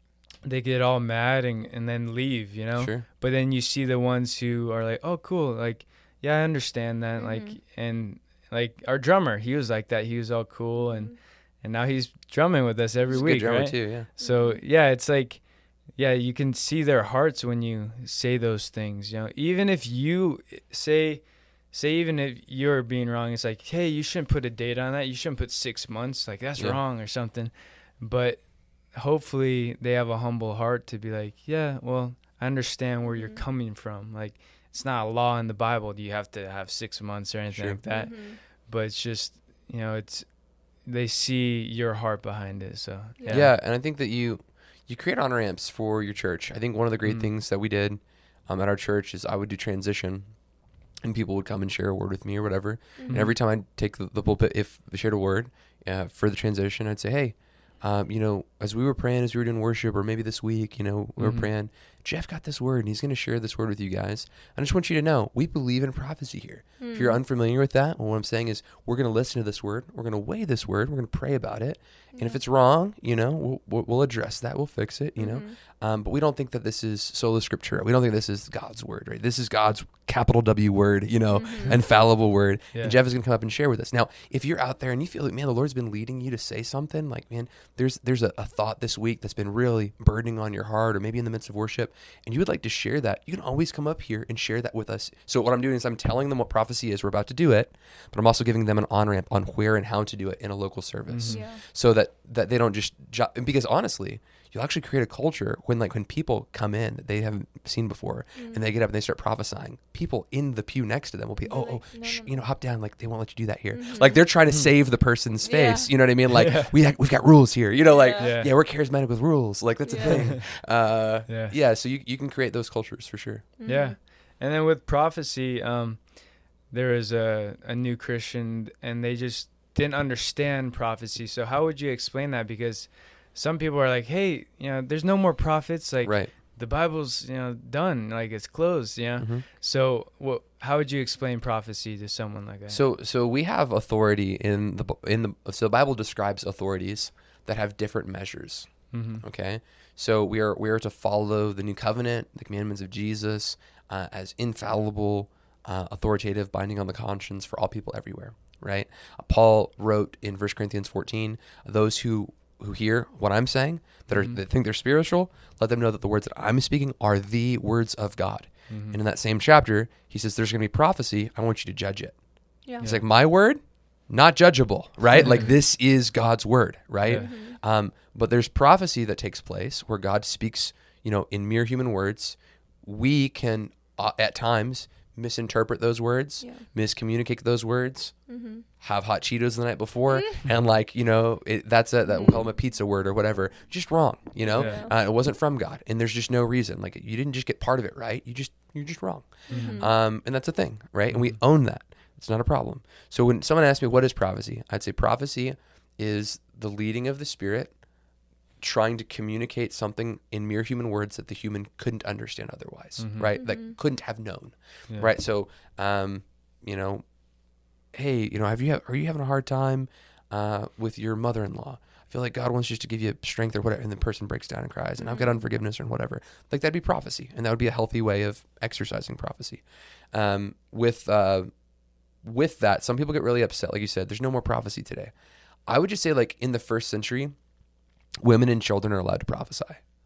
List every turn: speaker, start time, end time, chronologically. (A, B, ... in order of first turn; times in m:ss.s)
0:00.4-0:43.5 A
0:02.8-0:03.0 B
0:07.2-0:07.6 C
0:10.8-0:11.2 C
0:13.1-0:14.1 B
0:14.2-0:14.6 C
0:33.1-0:33.4 C
0:37.5-0:37.8 B
0:37.9-0:38.4 C
0:43.2-0:43.5 C
0:43.3-0:50.3 B
0:47.0-0:47.3 A
0:51.0-2:03.5 B
0:53.0-0:53.3 C
0:53.1-0:53.4 A
1:01.2-1:01.5 A
1:06.8-1:07.2 C
1:12.1-1:12.4 C
1:15.2-1:15.6 C
1:21.3-1:22.0 C
1:41.1-1:41.4 A
1:41.3-1:41.6 C
1:48.4-1:48.6 C
1:51.4-1:52.3 C
1:53.7-1:54.2 C
1:55.4-1:55.9 C
1:56.3-1:56.7 A
1:57.8-1:58.4 C
1:58.2-1:58.5 A
1:59.8-2:00.2 C
2:00.1-2:00.4 A
2:01.3-2:01.6 A
2:03.6-2:04.0 C
2:03.7-2:22.8 A
2:16.0-2:16.3 B
2:19.2-2:19.4 B
2:22.7-2:52.2 B
2:28.9-2:29.2 A
2:44.1-2:44.4 A
2:48.7-2:49.0 A
2:52.8-3:08.2 B
2:55.2-2:55.5 A
2:57.0-2:57.3 A
2:57.2-2:57.6 C
3:08.3-3:08.6 C
3:08.8-3:27.8 B
3:10.1-3:10.4 C
3:12.1-3:12.5 C
3:14.4-3:14.9 C
3:14.5-3:14.9 A
3:19.5-3:19.9 C
3:19.5-3:19.8 A
3:21.1-3:21.4 A
3:28.6-3:37.1 B
3:33.0-3:33.3 A
3:33.4-3:33.8 C
3:37.9-3:51.5 B
3:45.0-3:45.4 C
3:52.2-3:55.1 B
3:55.7-3:57.4 B
3:58.2-3:59.8 B